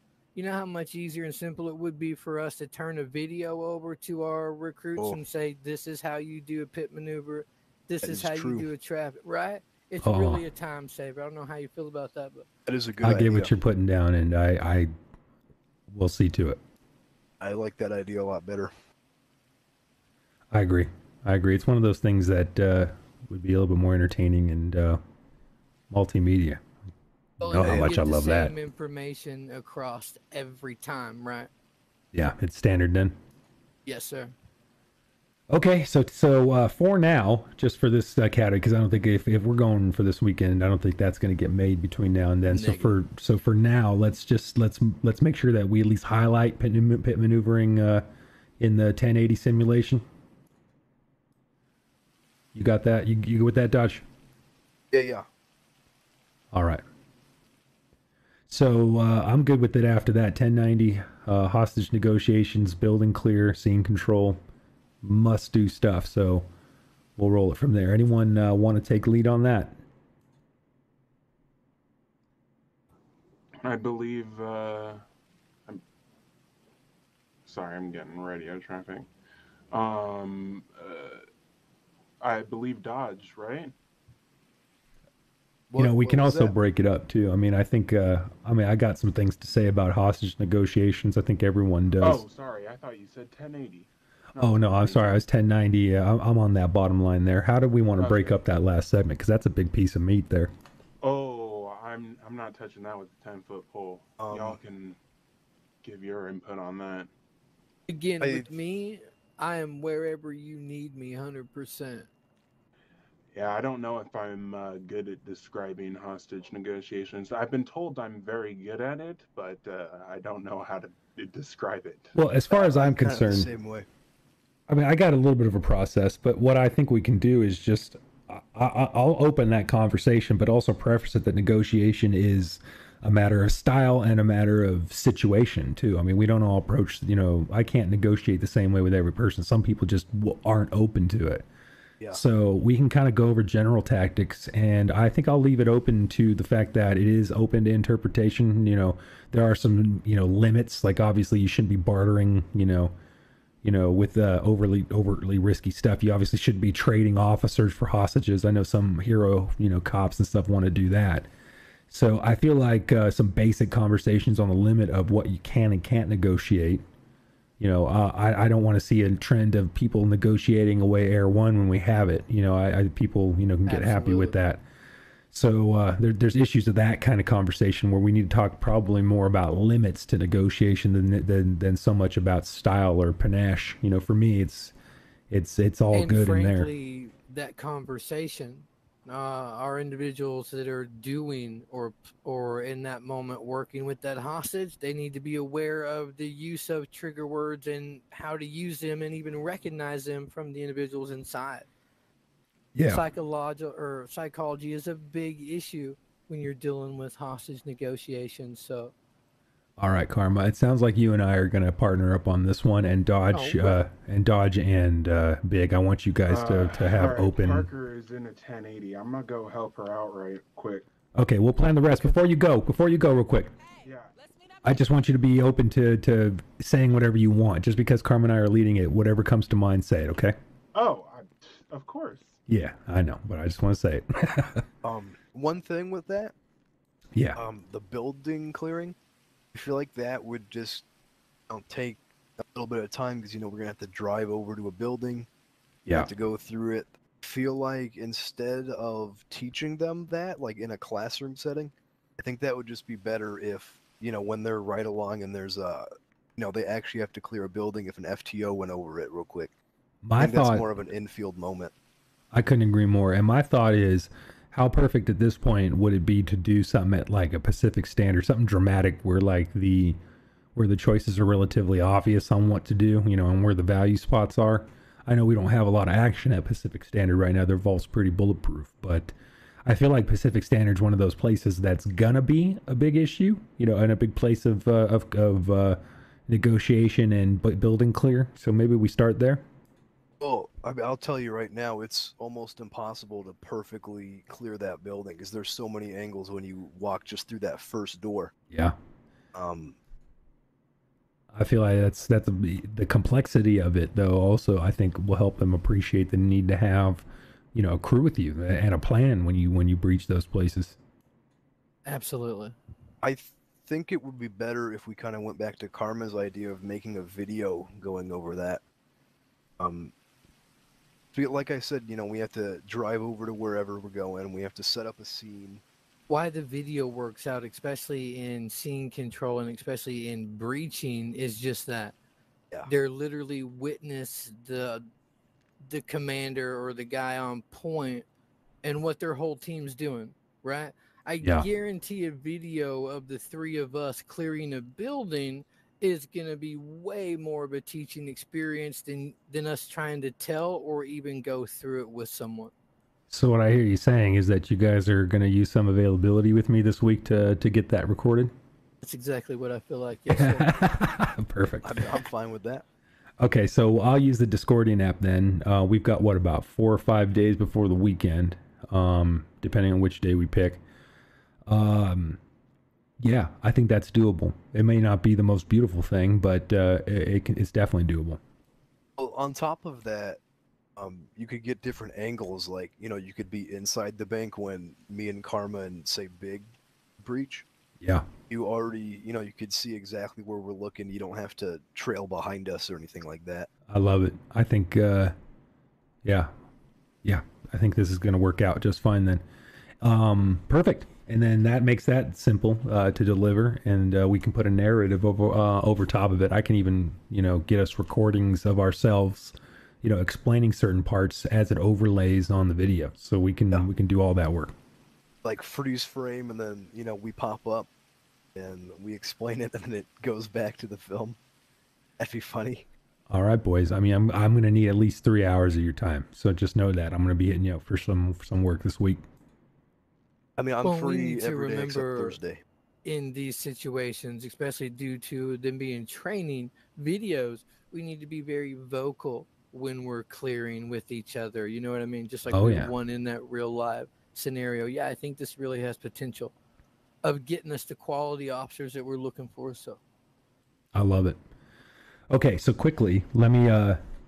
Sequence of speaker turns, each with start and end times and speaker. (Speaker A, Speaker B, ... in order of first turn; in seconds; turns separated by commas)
Speaker A: 0.3-12.5, Speaker B: 8.0-8.7, Speaker C: 10.0-10.4, Speaker B: 12.7-13.5, Speaker C: 13.0-14.9, Speaker C: 15.9-16.6, Speaker B: 17.4-18.7, Speaker C: 20.5-25.0, Speaker C: 25.9-26.6, Speaker C: 27.4-28.5, Speaker A: 27.4-31.5, Speaker B: 27.6-27.9, Speaker C: 32.1-33.1, Speaker A: 33.8-34.3, Speaker C: 35.5-48.0, Speaker A: 42.5-43.0, Speaker C: 48.6-50.0, Speaker C: 52.5-54.0, Speaker B: 54.9-55.2, Speaker C: 56.5-56.8, Speaker C: 58.5-64.4, Speaker C: 65.0-66.5, Speaker C: 67.2-69.8, Speaker D: 73.6-75.0, Speaker D: 77.5-79.1, Speaker D: 79.7-81.2, Speaker D: 82.2-83.7, Speaker B: 85.7-86.5, Speaker C: 85.8-92.2, Speaker D: 92.0-95.2, Speaker C: 94.4-100.5, Speaker D: 98.0-98.3, Speaker D: 101.0-105.0, Speaker B: 104.2-104.6, Speaker D: 105.8-107.1, Speaker A: 107.9-112.1, Speaker B: 108.2-108.5, Speaker D: 113.3-122.1, Speaker C: 122.1-123.5, Speaker B: 122.5-123.9, Speaker C: 124.7-141.4, Speaker C: 142.1-152.9, Speaker C: 153.6-161.3, Speaker C: 161.9-166.8, Speaker C: 167.6-174.6, Speaker A: 173.7-174.3, Speaker C: 175.3-184.7, Speaker C: 185.3-186.7, Speaker A: 185.9-201.7, Speaker C: 202.7-203.0, Speaker A: 202.8-208.9, Speaker C: 209.8-217.7, Speaker A: 213.3-213.8, Speaker D: 216.3-220.8, Speaker C: 221.1-223.5, Speaker D: 223.8-224.1, Speaker C: 224.6-230.4, Speaker D: 230.7-232.4, Speaker C: 232.5-234.6, Speaker B: 234.8-236.3, Speaker C: 237.1-237.4, Speaker B: 237.3-238.9, Speaker B: 239.5-240.8, Speaker B: 241.5-245.3, Speaker B: 245.9-259.5, Speaker C: 260.0-260.6, Speaker B: 260.2-261.7, Speaker C: 262.3-270.0, Speaker C: 270.5-279.1, Speaker C: 279.6-289.4, Speaker B: 290.2-298.3, Speaker C: 298.5-298.8, Speaker B: 299.3-299.8, Speaker C: 301.3-310.8, Speaker A: 311.8-312.6, Speaker B: 313.0-318.6, Speaker B: 319.6-319.9, Speaker B: 321.1-325.6, Speaker A: 326.1-331.9, Speaker A: 332.6-334.9, Speaker A: 335.6-338.1, Speaker A: 338.6-352.5, Speaker C: 341.2-341.5, Speaker C: 353.1-358.3, Speaker A: 358.8-360.6, Speaker C: 360.1-361.9, Speaker B: 361.6-362.6, Speaker C: 363.2-370.6, Speaker C: 371.4-372.2, Speaker C: 373.0-378.2, Speaker B: 379.0-380.2, Speaker B: 380.8-387.4, Speaker C: 387.8-388.1, Speaker B: 388.3-393.5, Speaker C: 393.7-395.1, Speaker C: 396.0-396.3, Speaker C: 397.0-399.2, Speaker C: 399.8-414.5, Speaker B: 415.2-417.7, Speaker B: 418.4-421.2, Speaker B: 422.0-422.7, Speaker C: 423.1-429.0, Speaker B: 430.4-432.4, Speaker A: 430.6-432.2, Speaker A: 432.8-446.3, Speaker C: 442.3-442.7, Speaker A: 447.0-449.8, Speaker C: 450.7-451.2, Speaker C: 452.1-453.8